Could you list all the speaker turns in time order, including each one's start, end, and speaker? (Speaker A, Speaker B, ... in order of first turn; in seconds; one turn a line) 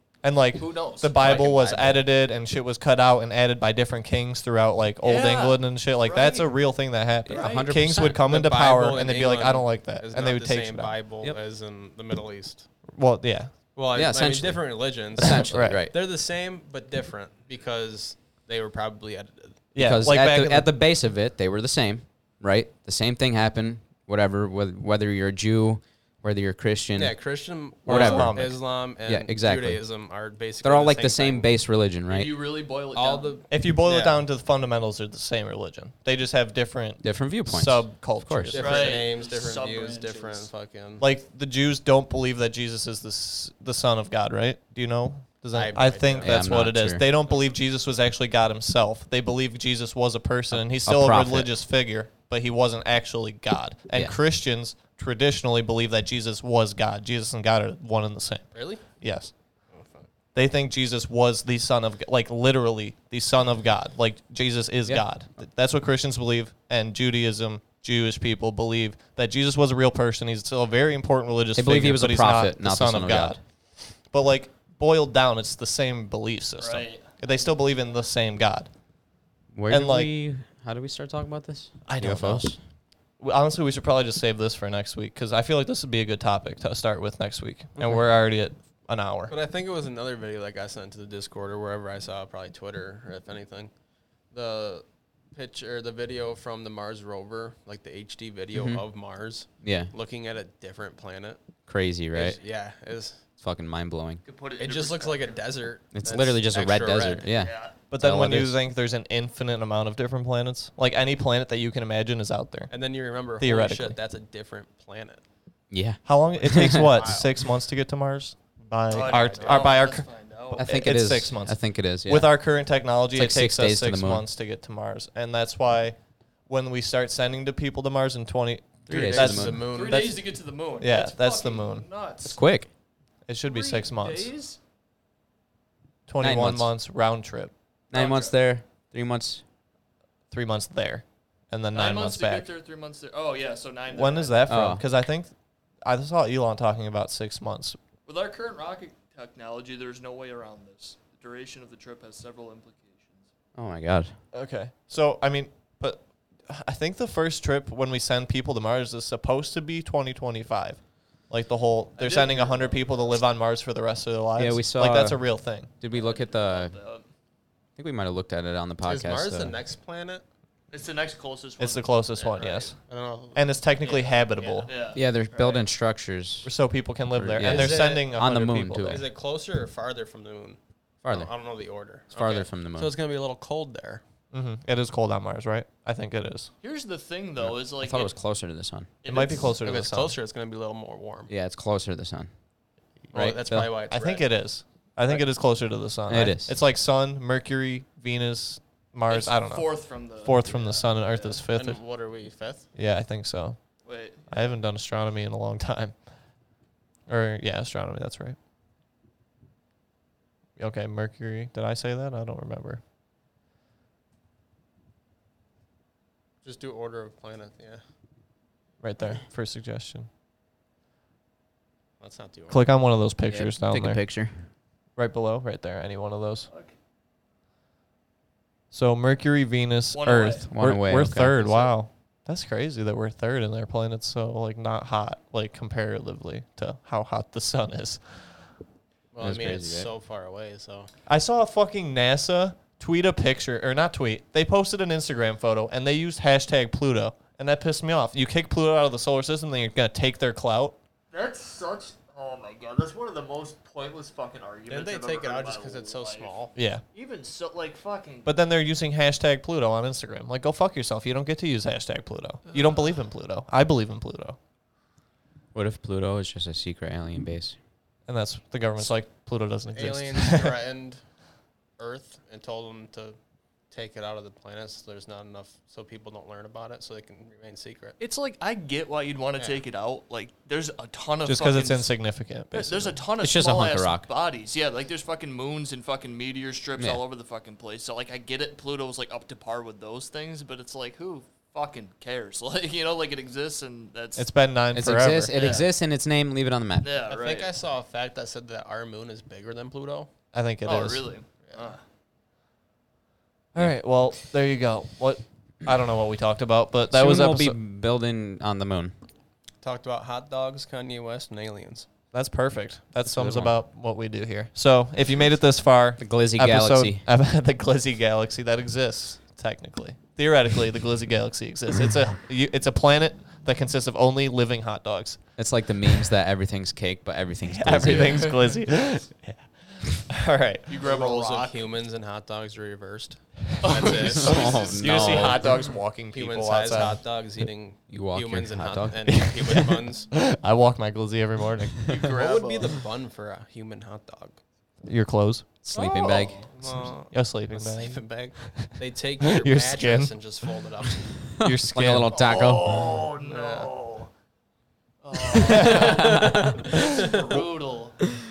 Speaker A: 0.2-10.9
Speaker B: 0.6-1.6
Speaker C: 1.1-2.0
Speaker B: 5.0-6.5
Speaker D: 7.3-8.2
Speaker B: 7.3-7.8
Speaker C: 8.1-12.7
Speaker A: 12.9-13.5
Speaker C: 13.7-19.6
Speaker D: 13.9-15.9
Speaker A: 15.4-15.8
Speaker A: 19.7-20.7
Speaker D: 19.8-27.1
Speaker C: 26.9-31.5
Speaker D: 27.8-28.4
Speaker A: 27.9-28.6
Speaker D: 29.0-29.8
Speaker D: 30.6-32.3
Speaker B: 32.1-33.3
Speaker C: 32.9-34.2
Speaker A: 33.5-39.0
Speaker D: 37.0-38.5
Speaker C: 38.5-41.0
Speaker B: 38.5-40.5
Speaker A: 41.0-59.3
Speaker C: 45.5-46.4
Speaker D: 46.2-47.0
Speaker D: 50.5-51.5
Speaker C: 58.5-58.8
Speaker C: 59.7-60.1
Speaker A: 60.3-73.4
Speaker D: 71.5-73.4
Speaker A: 74.1-78.7
Speaker B: 76.6-77.0
Speaker D: 79.5-82.6
Speaker A: 79.7-80.1
Speaker A: 81.9-82.5
Speaker A: 83.2-89.3
Speaker D: 87.8-88.0
Speaker C: 89.3-93.7
Speaker C: 94.3-101.4
Speaker D: 98.5-98.8
Speaker D: 99.6-99.9
Speaker D: 101.7-102.4
Speaker C: 102.1-103.2
Speaker D: 103.4-104.2
Speaker B: 104.2-105.4
Speaker C: 104.6-107.3
Speaker D: 105.9-108.6
Speaker B: 107.3-107.7
Speaker A: 107.9-112.7
Speaker C: 112.7-115.2
Speaker A: 113.4-114.0
Speaker D: 115.7-116.8
Speaker A: 116.0-120.1
Speaker C: 116.7-117.3
Speaker B: 118.9-120.6
Speaker C: 119.1-119.7
Speaker D: 120.5-122.3
Speaker A: 120.6-126.0
Speaker D: 123.1-124.2
Speaker A: 126.5-130.2
Speaker D: 128.8-129.6
Speaker C: 128.9-130.1
Speaker B: 129.7-132.4
Speaker A: 130.8-131.8
Speaker D: 132.2-132.7
Speaker A: 133.3-134.3
Speaker B: 133.4-134.6
Speaker A: 136.1-137.5
Speaker D: 136.2-136.7
Speaker D: 137.9-139.4
Speaker B: 137.9-138.3
Speaker A: 140.3-142.5
Speaker B: 141.7-144.4
Speaker A: 143.9-145.3
Speaker D: 144.5-144.8
Speaker A: 145.8-147.8
Speaker B: 148.1-153.3
Speaker D: 153.6-154.2
Speaker A: 154.3-165.7
Speaker C: 162.0-163.0
Speaker D: 164.4-166.7
Speaker B: 165.9-167.0
Speaker D: 167.8-169.6
Speaker C: 168.8-170.2
Speaker B: 170.7-171.9
Speaker A: 171.6-172.8
Speaker C: 172.2-174.7
Speaker A: 173.3-174.7
Speaker B: 173.8-175.7
Speaker D: 174.9-176.5
Speaker A: 176.4-179.0
Speaker D: 177.2-179.0
Speaker C: 177.4-178.1
Speaker C: 178.9-184.0
Speaker D: 181.0-181.3
Speaker D: 182.1-182.9
Speaker A: 184.3-186.5
Speaker B: 186.6-188.1
Speaker D: 187.4-188.9
Speaker B: 189.0-189.5
Speaker A: 189.1-190.1
Speaker C: 189.6-191.3
Speaker D: 191.3-192.3
Speaker C: 193.1-194.3
Speaker D: 193.1-193.7
Speaker A: 193.9-201.8
Speaker D: 196.1-196.5
Speaker B: 199.1-201.3
Speaker C: 201.5-202.7
Speaker A: 202.8-203.6
Speaker B: 203.8-204.5
Speaker A: 204.3-205.9
Speaker A: 207.1-208.4
Speaker A: 210.6-212.8
Speaker C: 216.4-217.8
Speaker A: 218.8-220.1
Speaker C: 222.0-222.6
Speaker A: 222.5-224.0
Speaker D: 223.3-224.4
Speaker A: 225.0-226.5
Speaker A: 228.7-238.3
Speaker B: 229.9-231.7
Speaker D: 230.5-231.3
Speaker C: 239.1-240.9
Speaker D: 239.2-239.9
Speaker A: 241.1-250.8
Speaker B: 251.1-256.4
Speaker C: 254.7-256.5
Speaker A: 256.6-256.8
Speaker B: 256.9-258.3
Speaker A: 258.2-264.4
Speaker D: 265.5-267.6
Speaker A: 268.1-270.5
Speaker C: 269.7-271.0
Speaker C: 271.8-273.2
Speaker C: 273.7-277.9
Speaker B: 278.0-281.9
Speaker A: 281.2-283.0
Speaker B: 282.5-294.3
Speaker D: 283.2-284.1
Speaker A: 294.2-295.4
Speaker D: 294.7-296.9
Speaker B: 295.4-295.7
Speaker B: 296.8-297.5
Speaker C: 297.1-300.1
Speaker A: 300.3-301.1
Speaker B: 300.6-301.8
Speaker C: 301.4-301.8
Speaker A: 303.5-307.6
Speaker D: 306.9-308.9
Speaker C: 309.6-311.9
Speaker A: 312.1-325.2
Speaker D: 313.0-313.5
Speaker D: 316.0-317.0
Speaker D: 325.4-328.4
Speaker A: 327.5-329.4
Speaker A: 329.9-330.7
Speaker B: 330.7-331.6
Speaker C: 330.8-334.6
Speaker B: 333.6-335.5
Speaker D: 334.1-335.5
Speaker A: 334.2-337.1
Speaker C: 336.1-340.1
Speaker D: 337.9-339.2
Speaker A: 339.1-342.1
Speaker B: 341.9-342.7
Speaker C: 342.1-344.4
Speaker A: 344.9-345.5
Speaker D: 345.6-346.4
Speaker B: 345.7-346.5
Speaker C: 345.9-351.1
Speaker A: 346.6-350.1
Speaker D: 351.4-352.9
Speaker A: 351.4-352.1
Speaker B: 352.1-354.1
Speaker C: 353.2-353.7
Speaker B: 355.0-358.0
Speaker A: 355.5-356.0
Speaker C: 355.6-357.2